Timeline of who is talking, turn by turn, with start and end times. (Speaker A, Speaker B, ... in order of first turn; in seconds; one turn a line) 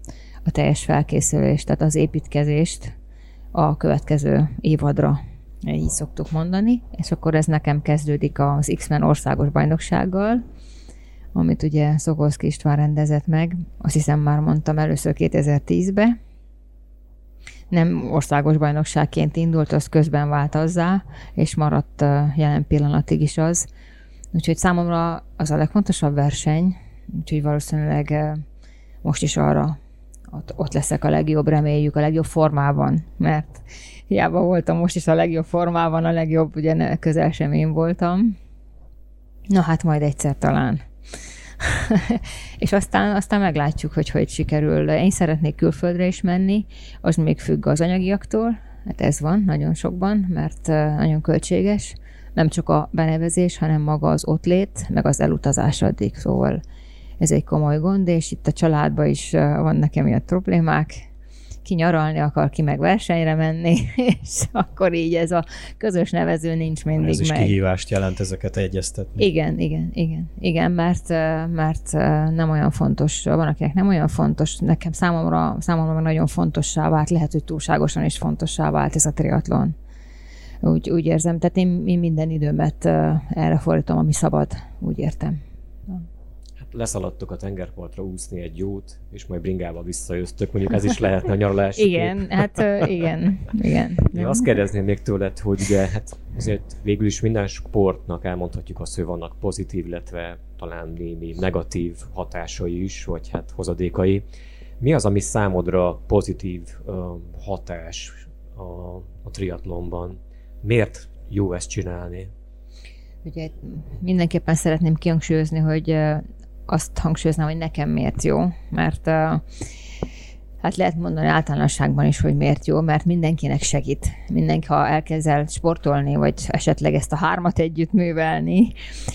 Speaker A: 0.5-2.9
Speaker A: 3.5-10.4
Speaker A: 11.3-16.2
Speaker A: 17.7-23.7
Speaker A: 24.3-28.4
Speaker A: 29.0-29.8
Speaker A: 30.3-38.4
Speaker A: 39.5-40.9
Speaker A: 41.6-56.6
Speaker A: 57.2-61.0
Speaker A: 61.6-67.5
Speaker B: 67.0-69.3
Speaker A: 69.2-79.8
Speaker A: 80.6-86.0
Speaker C: 86.6-92.9
Speaker A: 91.8-94.5
Speaker C: 94.1-104.2
Speaker C: 104.8-112.3
Speaker A: 113.2-119.4
Speaker A: 120.6-128.7